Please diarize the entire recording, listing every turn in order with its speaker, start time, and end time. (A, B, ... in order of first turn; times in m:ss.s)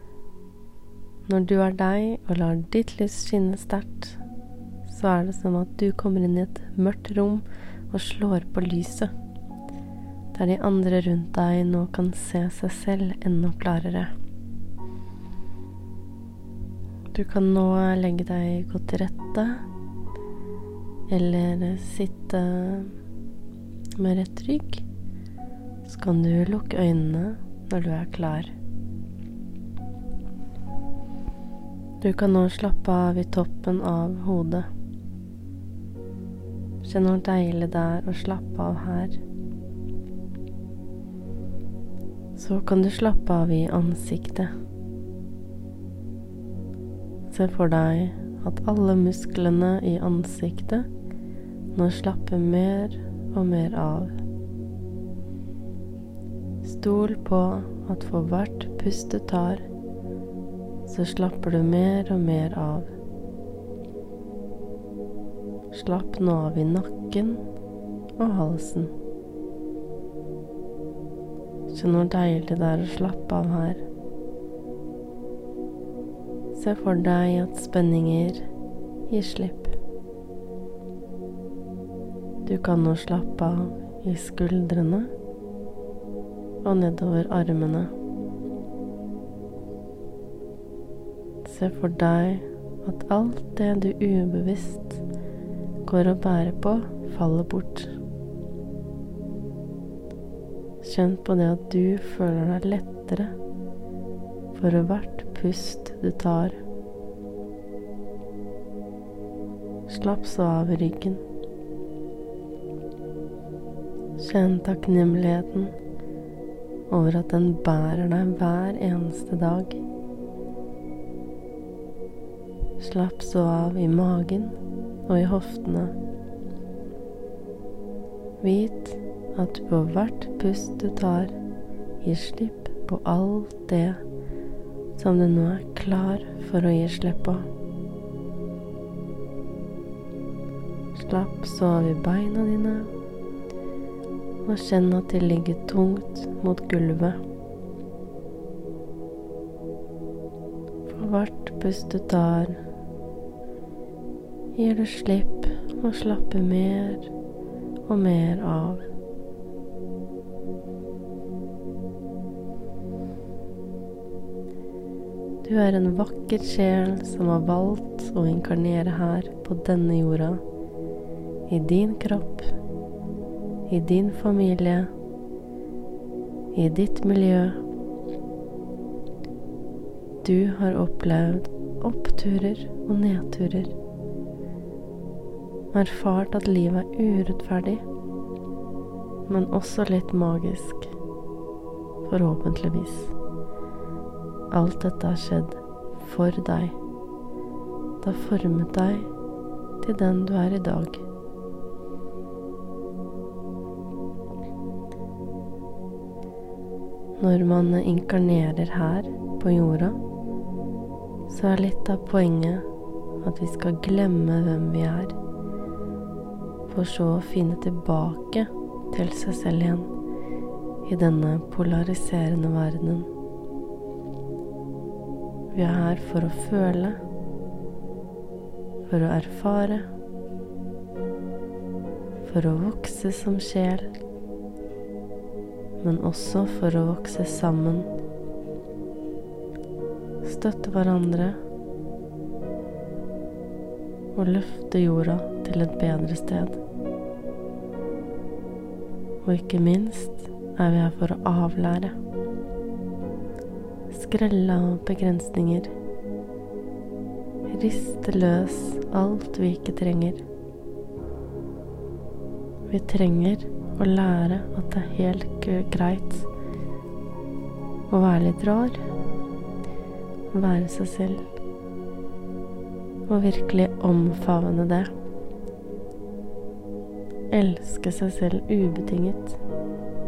0:01.3-0:04.2 A
0:04.8-0:09.1 A
0:10.3-0:14.1 A
0:17.1-0:19.7 A
0:21.1-0:22.9 A
0:24.0-0:24.8 A
0:25.8-0:28.5 A
0:32.0-0:34.7 A
0:36.8-0:39.2 A
0:42.4-0:44.5 A
0:47.3-0:50.9 A
0:51.7-0:54.1 A
0:56.6-0:59.7 A
1:00.8-1:02.9 A
1:05.7-1:07.4 A
1:08.2-1:08.9 A
1:11.7-1:13.8 A
1:16.5-1:18.5 A
1:19.1-1:19.8 A
1:22.4-1:25.1 A
1:26.6-1:27.9 A
1:31.4-1:35.0 A
1:35.8-1:38.0 A
1:40.8-1:43.3 A
1:44.5-1:46.6 A
1:49.9-1:51.2 A
1:54.2-1:55.8 A
1:56.9-1:59.8 A
2:02.8-2:06.0 A
2:08.4-2:11.4 A
2:12.0-2:14.0 A
2:15.0-2:17.5 A
2:20.9-2:22.9 A
2:24.4-2:27.2 A
2:30.9-2:32.6 A
2:34.6-2:37.1 A
2:37.9-2:38.8 A
2:45.4-2:50.4 A
2:51.5-2:52.5 A
2:53.7-2:54.9 A
2:56.5-2:57.6 A
3:00.2-3:03.7 A
3:05.7-3:07.8 A
3:09.3-3:10.9 A
3:12.0-3:13.1 A
3:14.5-3:16.8 A
3:18.0-3:19.1 A
3:19.8-3:21.0 A
3:27.2-3:30.0 A
3:31.3-3:32.7 A
3:33.2-3:35.2 A
3:36.7-3:39.9 A
3:40.8-3:43.1 A
3:45.5-3:47.0 A
3:48.9-3:49.9 A
3:52.2-3:53.9 A
3:55.8-3:57.9 A
4:00.2-4:01.4 A
4:04.1-4:06.6 A
4:09.2-4:12.0 A
4:13.9-4:15.7 A
4:17.5-4:20.2 A
4:22.7-4:26.3 A
4:27.9-4:28.8 A
4:30.3-4:31.2 A
4:33.1-4:34.9 A
4:37.3-4:39.4 A